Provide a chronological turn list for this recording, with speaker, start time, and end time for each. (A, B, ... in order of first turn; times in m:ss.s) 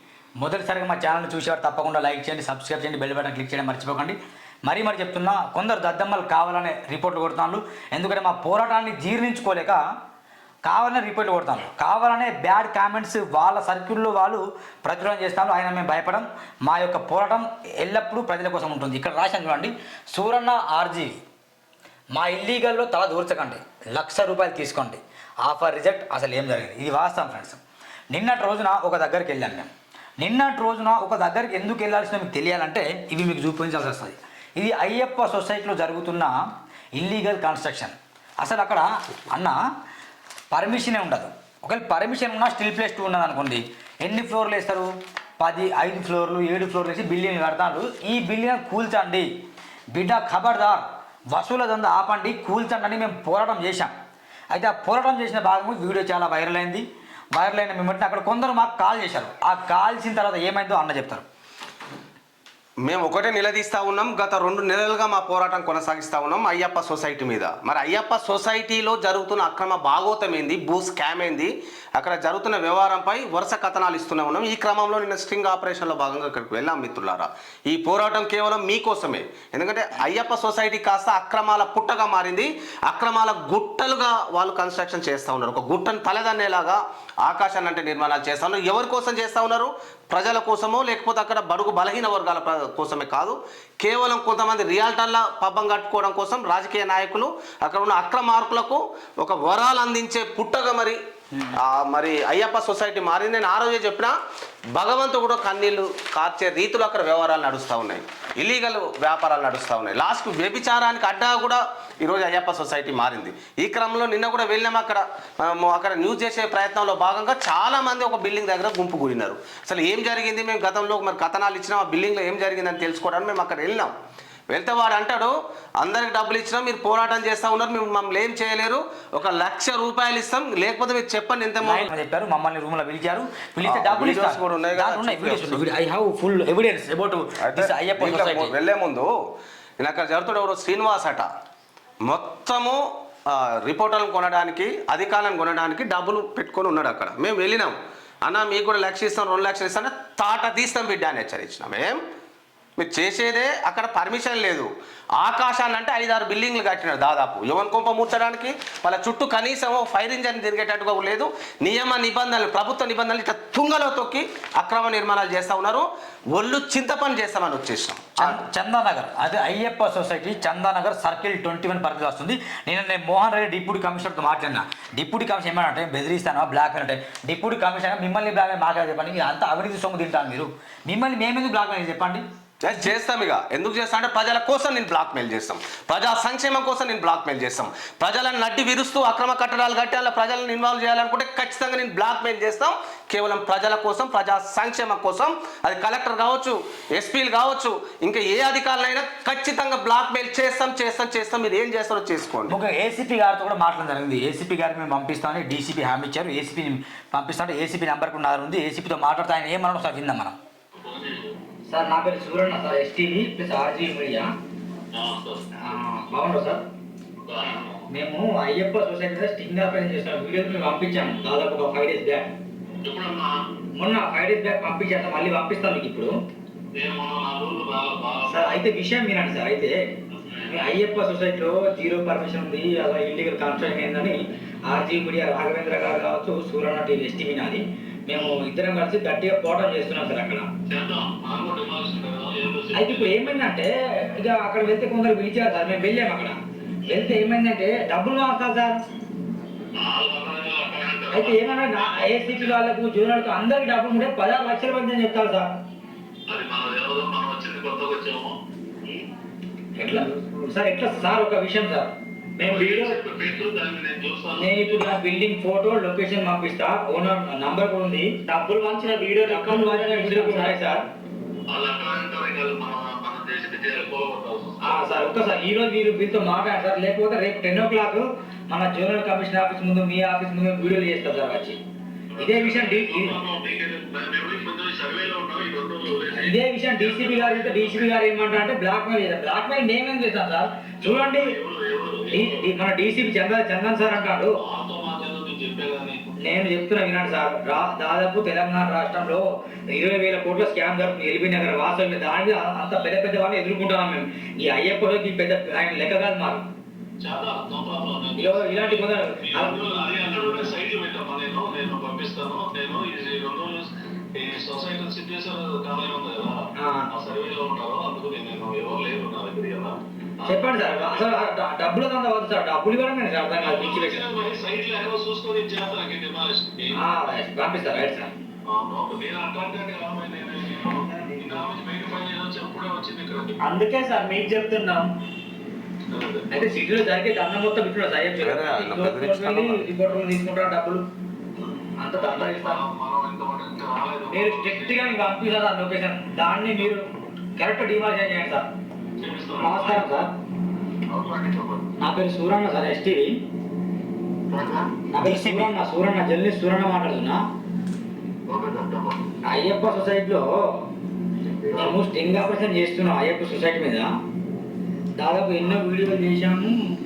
0:00.4-0:09.8 A
0:10.6-0:21.2 A
0:22.1-0:27.6 A
0:28.1-0:29.7 A
0:30.2-0:36.4 A
0:37.0-0:39.6 A
0:40.5-0:49.3 A
0:49.9-0:53.9 A
0:54.5-1:01.3 A
1:02.8-1:41.0 B
1:41.6-1:44.1 B
1:44.8-2:03.9 B
2:04.5-2:11.9 B
2:11.6-2:18.5 A
2:13.6-2:15.7 B
2:17.4-2:19.1 B
2:19.8-2:21.3 B
2:22.1-2:32.0 B
2:32.8-2:48.4 B
2:48.2-3:02.9 A
3:02.6-3:22.6 B
3:22.5-3:30.4 A
3:30.8-3:31.3 C
3:31.7-3:34.3 A
3:34.9-3:35.5 C
3:35.6-3:36.6 A
3:37.2-3:37.8 C
3:37.9-3:42.3 A
3:42.8-3:43.4 C
3:43.8-3:46.1 A
3:46.8-3:48.6 C
3:48.3-3:49.8 A
3:50.5-3:54.2 A
3:54.7-4:00.5 A
4:00.7-4:03.4 C
4:02.7-4:06.4 A
4:06.9-4:08.8 A
4:09.8-4:12.6 C
4:11.1-4:15.6 A
4:16.3-4:18.3 C
4:19.8-4:21.9 A
4:22.4-4:24.9 C
4:22.4-4:23.0 D
4:24.4-4:28.1 A
4:28.2-4:30.5 D
4:29.2-4:30.8 A
4:31.5-4:34.9 C
4:34.6-4:41.6 A
4:42.2-4:48.0 C
4:42.2-4:43.2 A
4:46.2-4:51.3 A
4:50.8-4:52.4 C
4:52.1-4:54.3 A
4:54.4-4:56.0 C
4:56.2-5:06.5 A
5:07.0-5:21.0 C
5:08.2-5:10.5 A
5:16.6-5:16.9 A
5:20.3-5:24.1 A
5:23.4-5:27.0 C
5:26.8-5:28.1 A
5:28.5-5:33.4 C
5:33.5-5:34.9 D
5:35.9-5:36.5 C
5:36.3-5:40.8 A
5:38.2-5:39.6 B
5:41.8-5:42.6 A
5:41.9-5:45.0 C
5:44.1-5:46.8 A
5:47.4-5:48.5 A
5:49.0-5:49.9 C
5:49.4-5:50.1 A
5:50.9-5:51.7 C
5:51.8-5:53.2 A
5:54.3-5:55.4 C
5:54.9-5:57.2 A
5:58.3-5:59.1 C
5:59.3-6:00.3 A
6:01.3-6:01.8 C
6:01.5-6:03.9 A
6:05.0-6:06.6 A